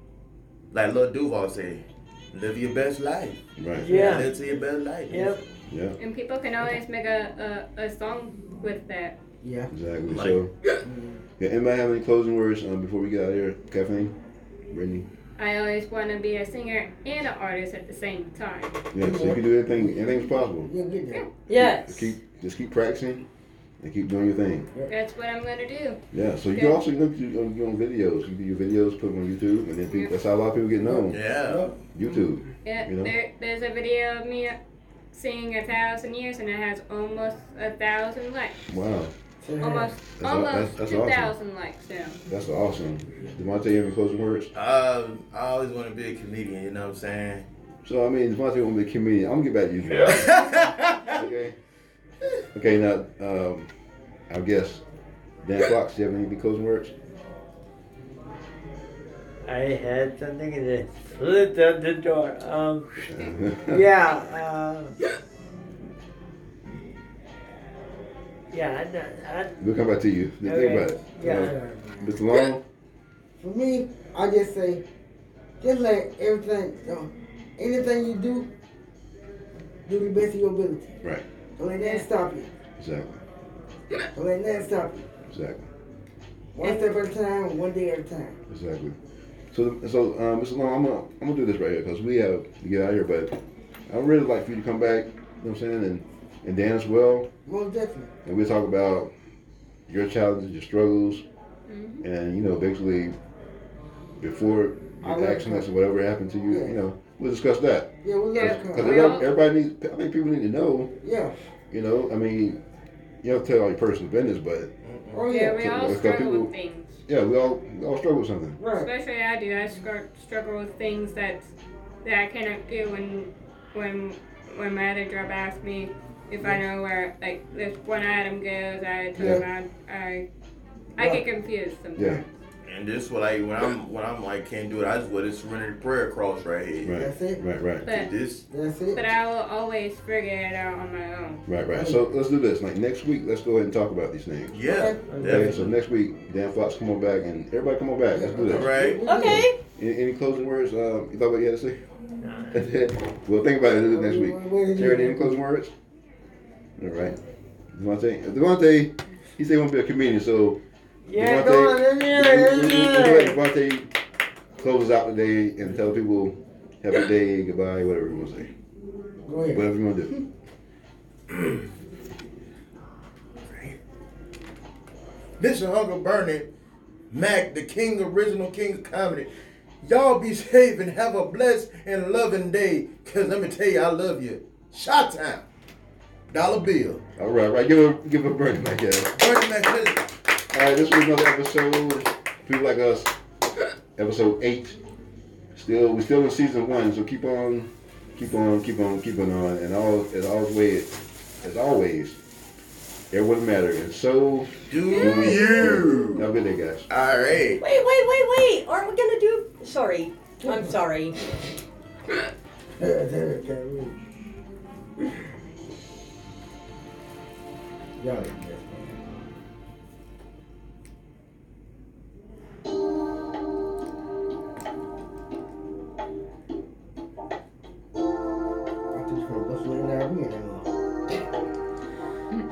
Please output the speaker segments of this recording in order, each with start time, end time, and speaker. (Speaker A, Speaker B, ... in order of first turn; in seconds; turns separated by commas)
Speaker A: 0.7-5.3, Speaker B: 3.6-3.9, Speaker C: 3.7-4.3, Speaker C: 5.1-5.4, Speaker B: 5.7-6.0, Speaker D: 6.0-9.1, Speaker E: 9.4-9.7, Speaker B: 9.7-10.5, Speaker A: 10.1-10.4, Speaker E: 10.8-11.2, Speaker B: 11.4-14.1, Speaker B: 14.7-15.1, Speaker D: 15.4-18.9, Speaker B: 18.9-20.7, Speaker E: 19.0-21.3, Speaker F: 21.5-22.1, Speaker B: 21.5-23.2, Speaker B: 23.8-24.7, Speaker D: 24.9-26.0, Speaker B: 26.1-31.2, Speaker E: 30.9-31.7, Speaker A: 31.1-31.8, Speaker B: 31.9-33.1, Speaker D: 32.6-34.6, Speaker D: 35.1-38.6, Speaker B: 38.7-39.1, Speaker E: 39.4-39.9, Speaker D: 39.6-42.2, Speaker B: 40.2-41.3, Speaker B: 42.3-44.5, Speaker A: 44.5-47.5, Speaker B: 47.8-51.5, Speaker A: 49.9-51.2, Speaker B: 52.5-53.7, Speaker B: 54.3-54.8, Speaker B: 55.4-56.9, Speaker C: 59.4-63.0, Speaker B: 63.0-63.8, Speaker C: 63.7-64.9, Speaker C: 68.5-69.6, Speaker B: 69.6-72.6, Speaker C: 70.4-71.5, Speaker E: 71.2-72.1, Speaker E: 73.4-74.8, Speaker E: 75.6-78.5, Speaker E: 79.9-81.0, Speaker E: 81.6-82.5, Speaker D: 81.8-82.0, Speaker B: 82.8-83.2, Speaker E: 84.1-85.0, Speaker B: 85.3-85.7, Speaker E: 86.5-88.4, Speaker D: 86.6-86.9, Speaker B: 88.5-89.0, Speaker B: 89.5-93.3, Speaker B: 93.9-97.3, Speaker E: 97.5-98.1, Speaker B: 98.2-99.1, Speaker B: 99.9-101.2, Speaker D: 101.7-102.0, Speaker B: 102.0-103.2, Speaker B: 104.2-110.9, Speaker E: 105.0-105.7, Speaker E: 106.5-106.7, Speaker E: 108.0-109.2, Speaker D: 108.4-109.3, Speaker E: 111.0-111.3, Speaker B: 111.7-112.6, Speaker B: 113.2-114.7, Speaker A: 114.8-115.3, Speaker E: 115.1-115.8, Speaker D: 115.3-117.0, Speaker B: 115.5-116.5, Speaker B: 117.1-118.6, Speaker E: 118.6-118.9, Speaker D: 118.7-121.5, Speaker D: 122.0-130.3, Speaker B: 129.2-129.4, Speaker E: 129.2-129.4, Speaker D: 131.0-132.2, Speaker E: 131.0-131.2, Speaker B: 131.9-132.2, Speaker A: 132.6-137.0, Speaker B: 136.8-137.8, Speaker E: 137.0-137.4, Speaker D: 137.8-138.1, Speaker A: 137.8-138.4, Speaker E: 138.5-139.1, Speaker D: 138.9-141.4, Speaker B: 141.5-144.6, Speaker E: 141.7-142.0, Speaker A: 144.5-145.7, Speaker E: 144.6-145.6, Speaker C: 145.1-145.4, Speaker B: 145.2-151.8, Speaker E: 148.1-149.5, Speaker A: 148.5-149.0, Speaker F: 149.0-149.6, Speaker C: 152.2-152.6, Speaker B: 152.5-155.7, Speaker E: 153.7-155.4, Speaker B: 156.8-157.2, Speaker B: 157.7-160.6, Speaker C: 161.1-163.4, Speaker B: 161.1-163.9, Speaker B: 164.6-168.5, Speaker E: 169.2-169.6, Speaker B: 169.5-170.1, Speaker A: 171.3-171.6, Speaker A: 173.5-173.8, Speaker A: 175.4-176.5, Speaker A: 177.1-179.3, Speaker A: 179.8-185.4, Speaker A: 186.3-187.0, Speaker B: 187.2-189.2, Speaker A: 189.2-190.1, Speaker B: 190.5-193.1, Speaker B: 193.9-194.8, Speaker B: 195.5-202.2, Speaker B: 203.1-206.9, Speaker A: 204.7-206.2, Speaker F: 205.2-205.6, Speaker A: 206.9-207.6, Speaker F: 207.6-211.1, Speaker E: 210.4-210.8, Speaker E: 212.8-214.0, Speaker E: 218.0-218.9, Speaker E: 228.9-230.7